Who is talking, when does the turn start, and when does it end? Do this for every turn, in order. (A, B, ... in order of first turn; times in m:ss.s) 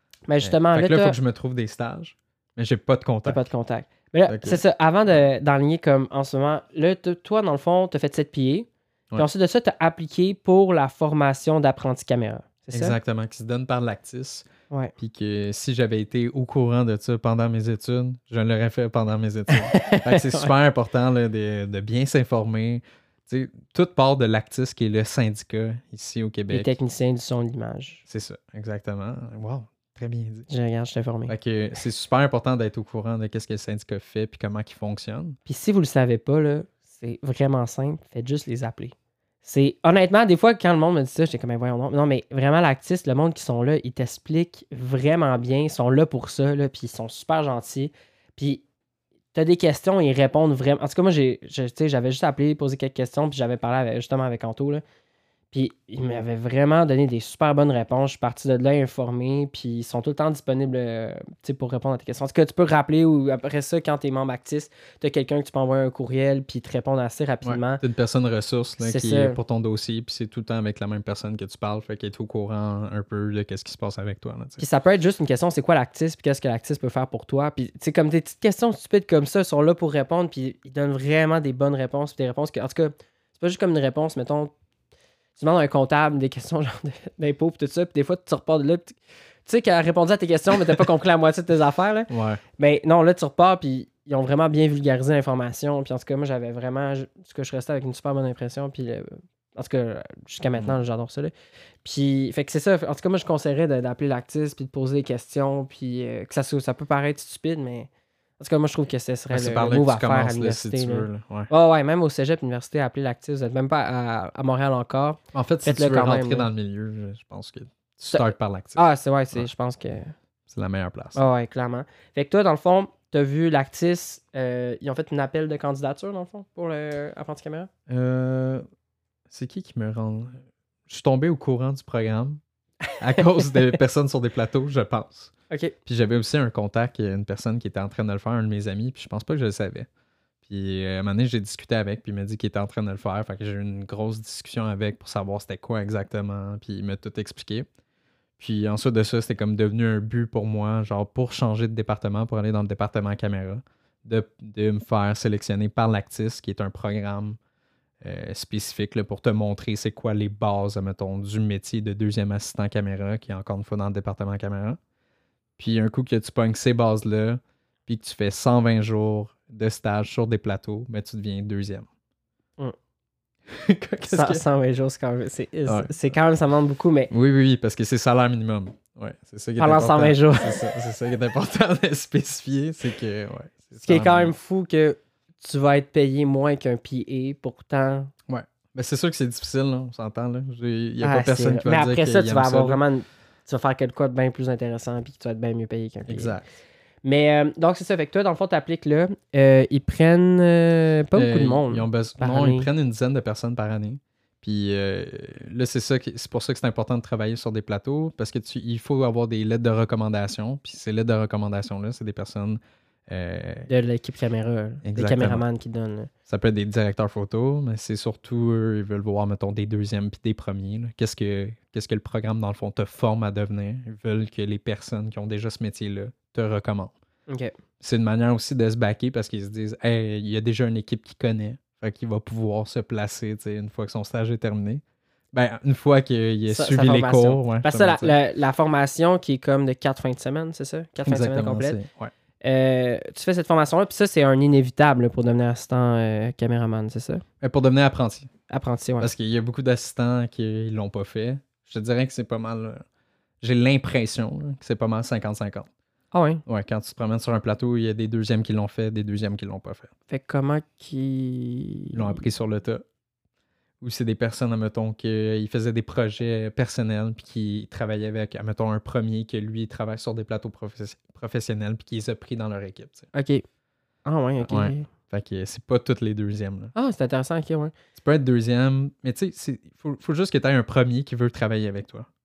0:00.3-0:01.2 A
0:00.4-0:03.4 B
0:03.2-0:13.0 A
0:04.3-0:04.6 B
0:12.7-0:26.7 B
0:19.5-0:20.5 A
0:26.5-0:28.0 A
0:28.1-0:30.5 B
0:30.5-0:31.4 A
0:31.3-0:35.4 B
0:35.5-0:48.6 A
0:49.3-0:54.8 A
0:55.5-1:07.8 A
1:07.4-1:14.6 B
1:08.8-1:09.4 A
1:14.6-1:24.5 A
1:25.4-1:41.3 A
1:32.1-1:32.4 B
1:41.8-1:56.5 A
1:49.3-1:51.5 B
1:55.3-1:59.5 B
1:58.1-2:00.1 A
2:00.5-2:01.3 B
2:01.2-2:07.7 A
2:07.9-2:08.6 B
2:09.3-2:12.4 B
2:13.0-2:15.3 B
2:15.9-2:19.9 B
2:20.4-2:27.7 B
2:28.4-2:37.4 B
2:38.0-2:44.8 B
2:45.6-2:51.9 B
2:53.5-2:54.4 B
2:54.1-2:57.1 A
2:55.7-2:56.0 B
2:57.1-3:04.3 B
2:59.6-3:00.7 A
3:03.8-3:08.1 A
3:08.3-3:12.8 B
3:11.0-3:16.4 A
3:16.1-3:16.6 B
3:17.0-3:22.7 A
3:21.1-3:33.7 B
3:33.7-3:36.1 A
3:34.8-3:35.4 B
3:36.3-3:47.0 B
3:47.3-3:47.5 A
3:47.8-3:58.2 B
3:56.5-4:01.8 A
4:01.0-4:02.1 B
4:02.4-4:07.2 A
4:07.4-4:08.3 B
4:08.5-4:09.1 A
4:09.0-4:12.8 B
4:13.4-4:15.7 B
4:16.1-4:16.4 A
4:16.5-4:19.9 B
4:20.1-4:22.2 A
4:21.9-4:22.8 B
4:23.8-4:33.1 B
4:33.1-4:33.4 A
4:34.0-4:34.9 A
4:34.5-4:36.7 B
4:36.8-4:37.7 A
4:38.0-4:42.1 B